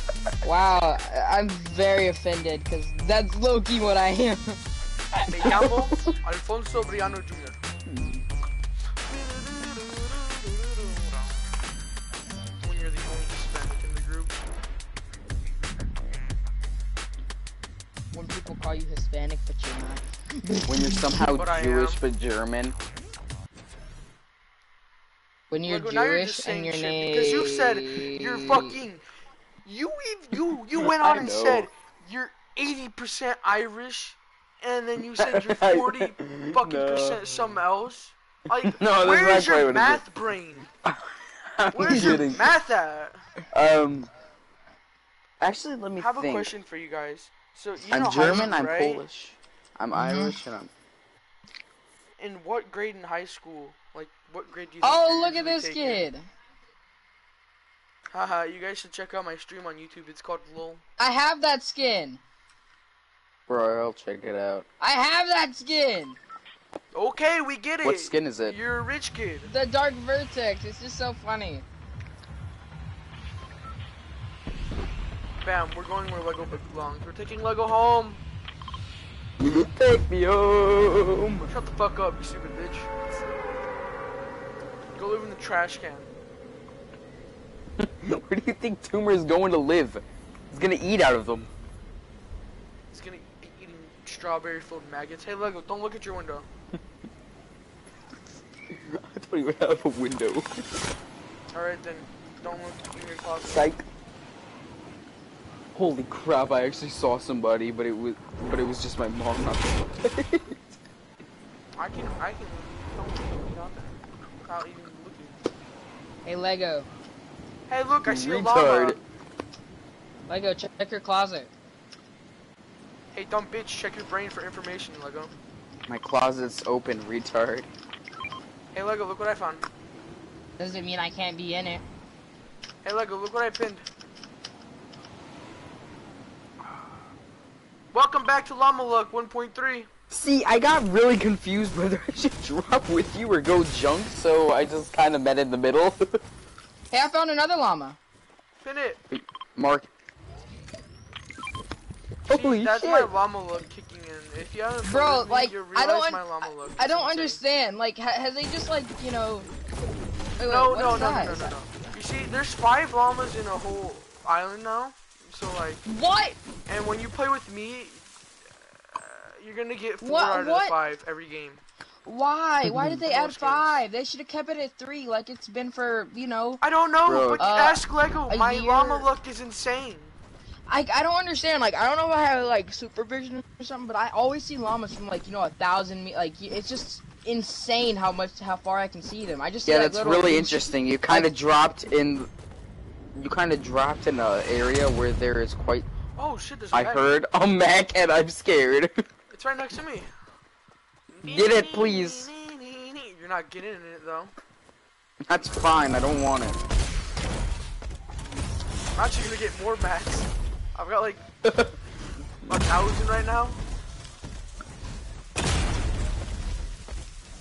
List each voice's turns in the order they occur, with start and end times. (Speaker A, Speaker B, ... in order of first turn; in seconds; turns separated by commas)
Speaker A: 0.4-4.6, Speaker B: 5.3-7.6, Speaker C: 5.4-6.1, Speaker C: 7.9-8.2, Speaker B: 9.1-11.2, Speaker B: 12.6-14.3, Speaker A: 18.1-21.0, Speaker C: 20.7-22.8, Speaker B: 21.3-22.0, Speaker A: 25.5-28.8, Speaker B: 25.6-29.0, Speaker B: 29.6-40.7, Speaker C: 30.8-31.7, Speaker C: 35.2-37.2, Speaker C: 38.7-40.0, Speaker C: 40.8-42.5, Speaker B: 41.7-43.2, Speaker A: 41.9-42.3, Speaker C: 43.5-44.1, Speaker C: 45.4-46.5, Speaker B: 46.0-49.0, Speaker C: 47.9-50.7, Speaker A: 49.9-50.4, Speaker B: 52.2-56.0, Speaker A: 54.8-56.3, Speaker B: 58.1-60.8, Speaker A: 61.0-62.2, Speaker C: 63.5-64.6, Speaker A: 64.8-66.2, Speaker B: 66.9-69.5, Speaker C: 67.8-68.6, Speaker A: 69.4-71.7, Speaker B: 75.4-78.2, Speaker C: 79.4-81.5, Speaker B: 81.5-83.5, Speaker B: 85.0-86.1, Speaker C: 87.8-91.5, Speaker B: 92.9-96.5, Speaker C: 98.7-100.6, Speaker B: 101.5-103.7, Speaker C: 103.5-103.8, Speaker C: 105.7-110.6, Speaker B: 111.8-115.4, Speaker A: 116.2-116.9, Speaker B: 117.7-119.0, Speaker C: 118.0-119.0, Speaker A: 120.3-121.5, Speaker B: 123.1-125.3, Speaker C: 125.9-127.7, Speaker B: 128.7-129.6, Speaker A: 130.6-131.8, Speaker B: 132.8-133.8, Speaker B: 137.9-139.9, Speaker C: 140.1-146.2, Speaker A: 146.9-148.0, Speaker B: 148.6-149.0, Speaker C: 149.1-149.9, Speaker B: 152.3-157.4, Speaker C: 152.3-153.1, Speaker A: 154.8-159.5, Speaker A: 160.4-161.5, Speaker B: 160.5-165.8, Speaker A: 165.8-166.4, Speaker B: 166.7-168.0, Speaker B: 168.9-171.6, Speaker A: 170.0-170.8, Speaker A: 172.0-176.6, Speaker C: 172.7-173.0, Speaker B: 173.1-173.8, Speaker B: 176.6-180.1, Speaker C: 177.1-177.5, Speaker A: 177.4-179.1, Speaker A: 180.7-191.3, Speaker C: 189.6-192.3, Speaker C: 193.1-195.9, Speaker B: 196.2-197.1, Speaker C: 196.7-198.9, Speaker B: 199.3-200.1, Speaker B: 201.1-204.3, Speaker C: 201.3-202.3, Speaker C: 205.3-206.6, Speaker B: 208.9-211.2, Speaker C: 211.4-211.7, Speaker B: 212.4-213.6